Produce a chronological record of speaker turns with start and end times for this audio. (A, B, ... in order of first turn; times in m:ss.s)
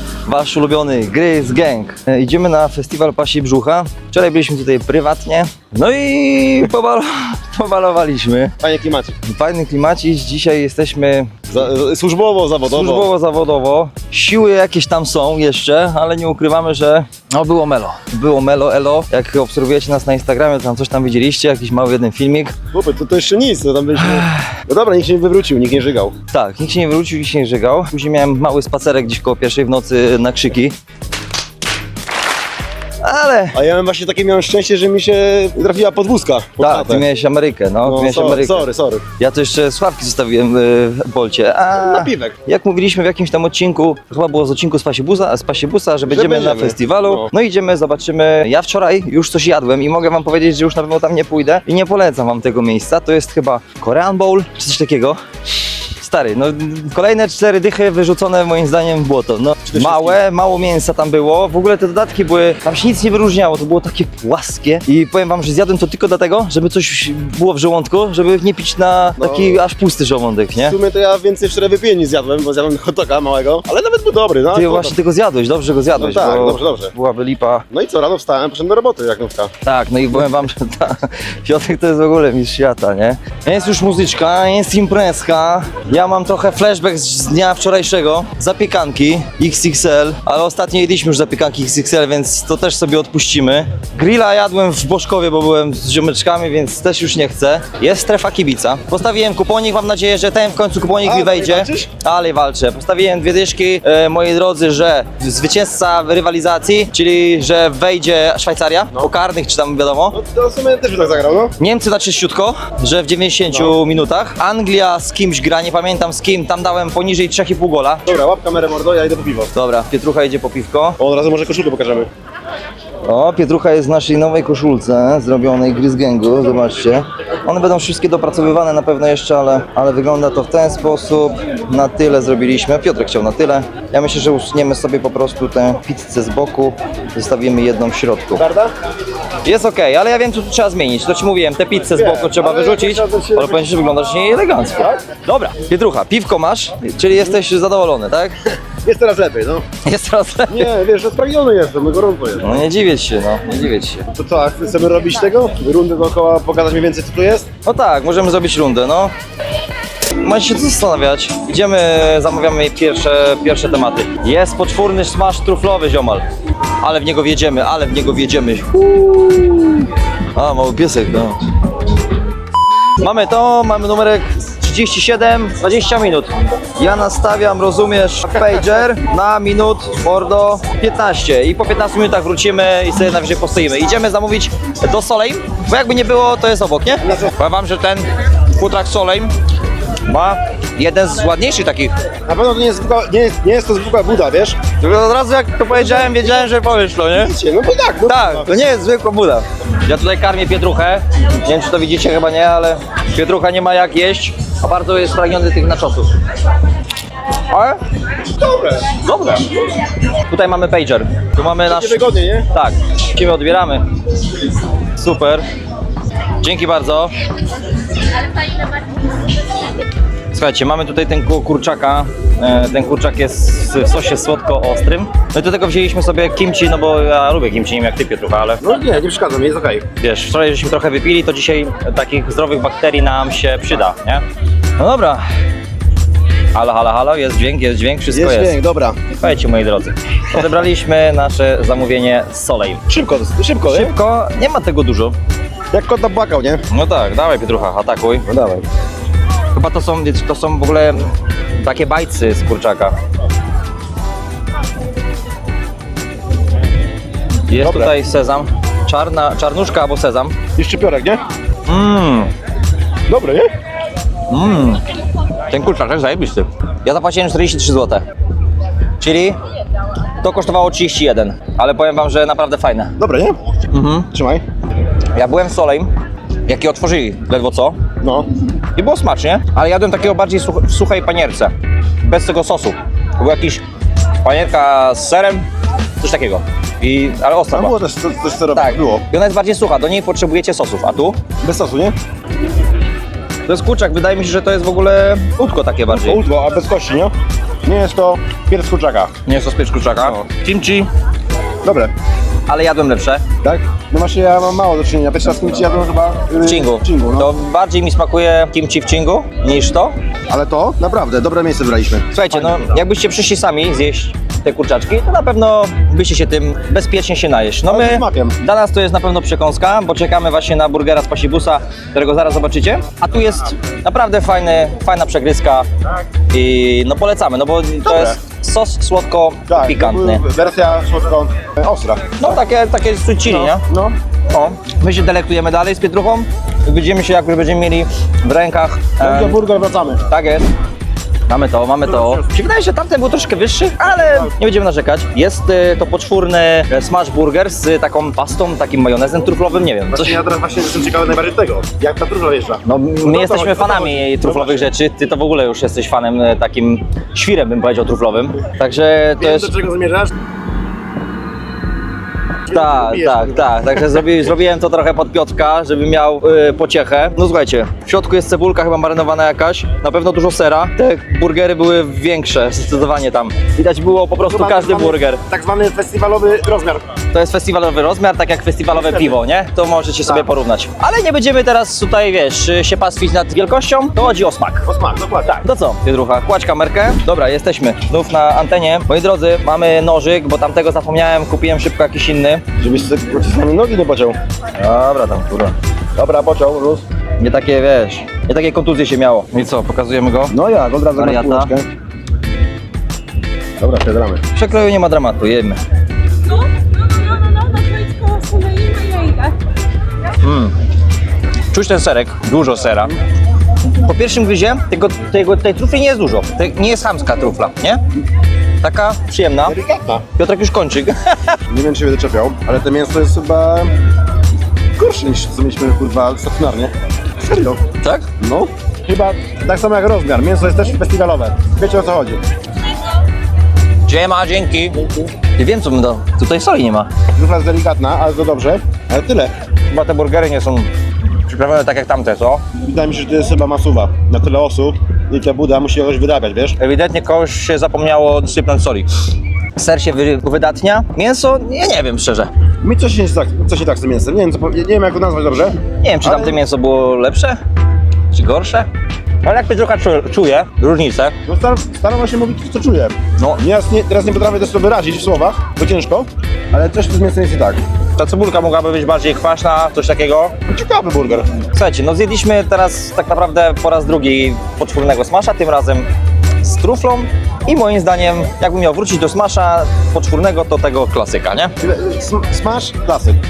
0:00.3-0:08.5 A
0:08.6-0:09.2 B
0:09.2-0:11.4 A
0:11.5-0:13.1 B
0:12.7-0:22.6 A
0:22.7-0:26.2 B
0:24.0-0:24.6 A
0:26.3-0:30.7 A
0:33.0-0:33.6 A
0:33.5-0:37.1 B
0:36.6-0:38.7 A
0:37.8-0:39.0 B
0:39.2-0:55.2 A
0:41.7-0:42.4 B
0:46.1-0:47.3 B
0:56.0-1:10.8 A
0:59.7-1:00.2 B
1:09.2-1:09.6 B
1:10.6-1:15.0 B
1:14.5-1:17.6 A
1:16.0-1:16.9 B
1:17.7-1:19.5 B
1:19.6-1:50.2 A
1:41.0-1:41.9 B
1:50.1-1:51.6 B
1:51.6-1:58.0 A
1:53.5-1:53.8 B
1:58.0-1:59.5 B
1:59.5-2:01.0 A
2:01.0-2:02.1 B
2:03.1-2:18.4 A
2:18.4-2:18.7 B
2:19.4-2:28.3 A
2:21.8-2:23.7 B
2:28.7-2:29.6 B
2:29.8-2:30.7 A
2:30.5-2:32.6 B
2:32.4-2:34.1 A
2:34.1-2:37.5 B
2:37.6-2:39.1 A
2:40.2-2:46.2 A
2:46.8-2:51.4 A
2:53.0-3:09.3 A
3:07.0-3:07.4 B
3:10.0-3:11.9 A
3:12.3-3:14.6 B
3:14.8-3:17.3 A
3:15.7-3:16.3 B
3:17.2-3:18.6 B
3:18.1-3:26.2 A
3:27.5-3:27.8 A
3:28.4-3:29.0 B
3:28.9-3:29.6 A
3:30.3-3:33.8 A
3:31.6-3:32.5 B
3:34.9-3:35.4 A
3:36.4-3:37.1 A
3:40.3-3:48.6 A
3:48.6-3:49.9 B
3:50.0-3:54.2 A
3:54.8-3:55.2 A
3:56.5-3:58.5 A
3:58.1-3:59.0 B
3:59.2-4:02.8 A
4:02.9-4:04.0 B
4:03.7-4:05.2 A
4:05.7-4:06.6 B
4:06.7-4:08.3 A
4:08.3-4:08.7 B
4:09.5-4:11.0 A
4:11.6-4:12.9 A
4:17.5-4:20.4 A
4:17.6-4:18.0 B
4:20.6-4:21.2 B
4:21.7-4:22.3 A
4:23.1-4:23.5 B
4:24.3-4:24.8 A
4:25.5-4:28.0 A
4:29.0-4:29.4 A
4:30.2-4:32.9 A
4:33.0-4:33.4 B
4:33.7-4:34.1 A
4:34.1-4:34.4 B
4:35.2-4:35.9 A
4:36.5-4:37.8 A
4:38.0-4:38.3 B
4:38.8-4:43.6 A
4:44.2-4:45.4 A
4:46.0-4:47.7 A
4:47.5-4:49.0 B
4:48.6-4:51.2 A
4:51.4-4:52.0 B
4:53.5-4:56.2 A
4:55.9-4:57.1 B
4:57.6-4:59.2 B
4:59.3-5:00.9 A
5:00.0-5:00.2 B
5:01.6-5:01.9 B
5:02.5-5:03.2 A
5:03.4-5:07.3 B
5:06.4-5:10.0 A
5:10.3-5:12.8 B
5:12.1-5:25.7 A
5:17.7-5:18.4 B
5:26.3-5:30.2 A
5:27.8-5:28.2 B
5:29.5-5:32.0 B
5:32.2-5:33.6 A
5:33.3-5:34.0 B
5:34.3-5:39.4 A
5:39.0-5:40.0 B
5:40.1-5:40.5 A
5:41.3-5:50.2 A
5:41.9-5:42.2 B
5:49.9-5:54.7 B
5:52.6-5:59.5 A
5:59.2-6:00.1 B
6:02.5-6:03.9 B
6:02.5-6:15.2 A
6:14.2-6:16.9 B
6:17.1-6:24.7 A
6:18.7-6:19.2 B
6:24.7-6:25.4 B
6:25.3-6:32.4 A
6:32.6-6:34.2 B
6:34.6-6:35.5 A
6:36.0-6:36.8 B
6:37.2-6:40.4 A
6:40.3-6:41.7 B
6:41.0-6:41.5 A
6:43.6-6:44.2 B
6:44.4-6:45.6 A
6:46.3-6:49.4 C
6:50.2-6:50.6 A
6:51.5-6:52.9 A
6:53.7-6:57.8 A
6:58.6-6:59.6 A
6:59.5-7:00.0 B
7:00.2-7:01.4 A
7:01.5-7:03.7 B
7:04.8-7:07.6 B
7:07.8-7:08.1 A
7:08.2-7:12.2 B
7:13.9-7:14.8 A
7:14.7-7:15.1 B
7:15.4-7:16.9 A
7:17.1-7:19.3 B
7:19.7-7:20.7 A
7:21.3-7:22.5 A
7:22.6-7:26.6 B
7:26.6-7:28.9 A
7:29.6-7:32.3 A
7:32.6-7:36.4 B
7:35.8-7:37.4 A
7:38.1-7:38.7 A
7:39.2-7:41.2 A
7:41.3-7:47.6 B
7:48.0-7:50.4 A
7:50.5-7:51.3 B
7:51.5-7:55.9 A
7:56.4-8:01.5 A
8:01.6-8:03.2 B